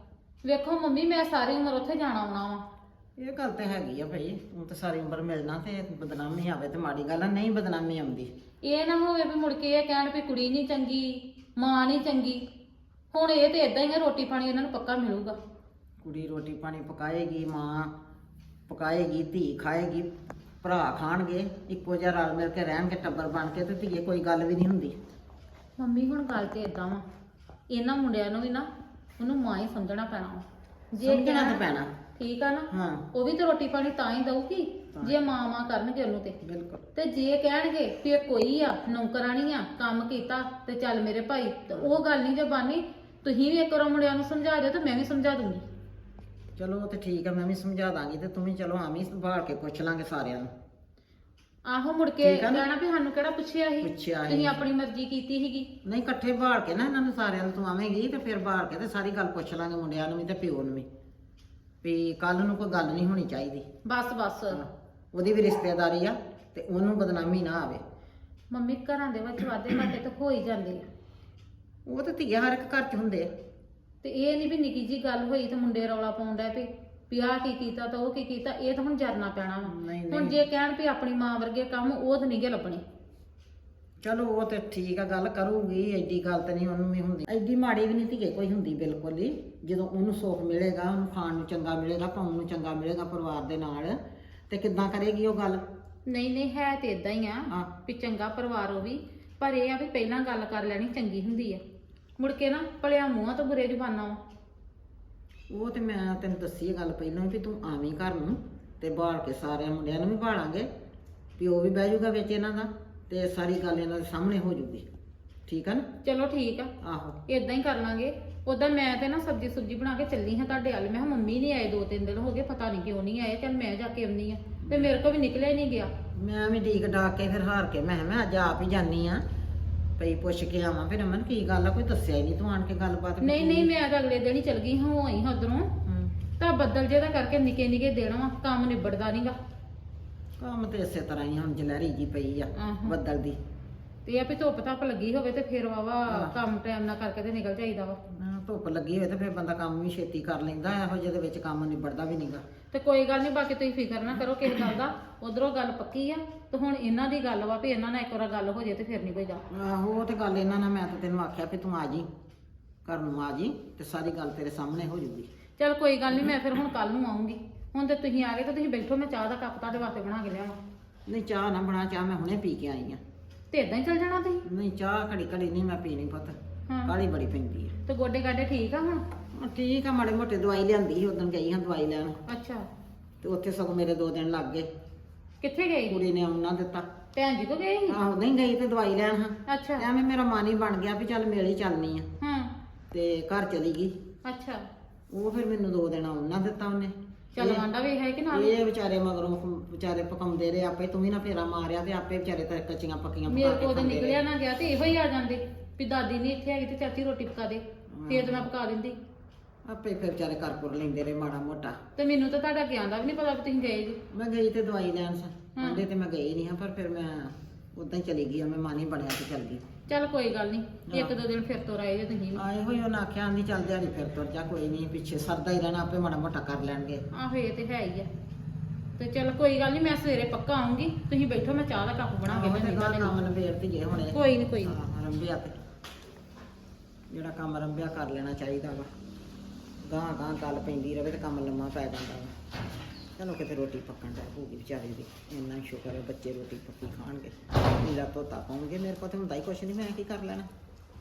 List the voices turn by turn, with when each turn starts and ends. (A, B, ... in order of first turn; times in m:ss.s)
0:00.4-0:02.6 A
0:03.2-0:08.3 B
0:08.6-0:12.4 A
0:13.1-0:15.4 A
0:16.0-0:17.9 B
0:18.7-0:20.1 B
0:20.6-0:24.9 B
0:25.8-0:27.0 A
0:27.7-0:28.7 A
0:29.2-0:31.6 A
0:31.0-0:31.9 B
0:32.2-0:36.3 A
0:32.7-0:33.1 B
0:35.0-0:35.2 B
0:36.4-0:36.8 B
0:36.9-0:45.6 A
0:41.7-0:42.0 B
0:46.6-0:50.5 B
0:51.7-0:55.7 A
0:52.2-0:52.6 B
0:53.8-0:54.5 B
0:55.8-1:00.8 B
1:01.8-1:03.6 B
1:03.8-1:04.6 A
1:04.5-1:07.8 B
1:08.5-1:10.9 A
1:11.8-1:13.3 B
1:14.0-1:22.8 A
1:19.6-1:20.4 B
1:24.0-1:34.0 B
1:34.5-1:35.6 B
1:36.1-1:41.6 A
1:42.2-1:44.2 A
1:45.5-1:50.7 B
1:51.4-1:54.8 B
1:55.5-1:55.8 B
1:56.0-1:56.7 A
1:56.8-1:57.2 B
1:57.3-2:05.9 A
2:04.6-2:04.9 B
2:06.1-2:09.2 B
2:10.0-2:13.7 B
2:13.2-2:15.7 A
2:15.8-2:16.1 B
2:16.4-2:19.4 A
2:20.4-2:23.4 B
2:22.6-2:23.0 A
2:24.0-2:28.0 A
2:26.1-2:26.4 B
2:28.1-2:32.4 B
2:32.7-2:39.4 A
2:39.5-2:42.1 B
2:42.8-2:45.3 B
2:45.6-2:50.6 A
2:51.1-2:53.0 B
2:53.5-2:54.4 A
2:54.4-2:57.7 B
2:57.8-2:59.0 A
2:59.3-3:02.2 B
3:02.3-3:02.6 A
3:03.2-3:04.7 B
3:05.4-3:06.0 A
3:05.9-3:06.8 B
3:07.1-3:08.0 A
3:07.9-3:12.1 B
3:09.5-3:09.8 A
3:12.2-3:12.5 A
3:12.9-3:13.9 B
3:14.2-3:14.6 A
3:15.1-3:17.6 B
3:17.4-3:18.5 A
3:18.3-3:24.2 B
3:23.3-3:29.0 A
3:27.9-3:28.5 B
3:29.6-3:31.8 B
3:32.0-3:34.0 A
3:34.1-3:39.6 B
3:35.6-3:35.8 A
3:39.9-3:42.4 A
3:40.9-3:41.2 B
3:42.3-3:47.0 B
3:47.1-3:48.1 A
3:49.0-3:53.2 A
3:52.2-3:55.5 B
3:54.1-3:54.8 A
3:57.1-3:58.9 B
3:59.8-4:02.3 B
4:03.2-4:10.5 B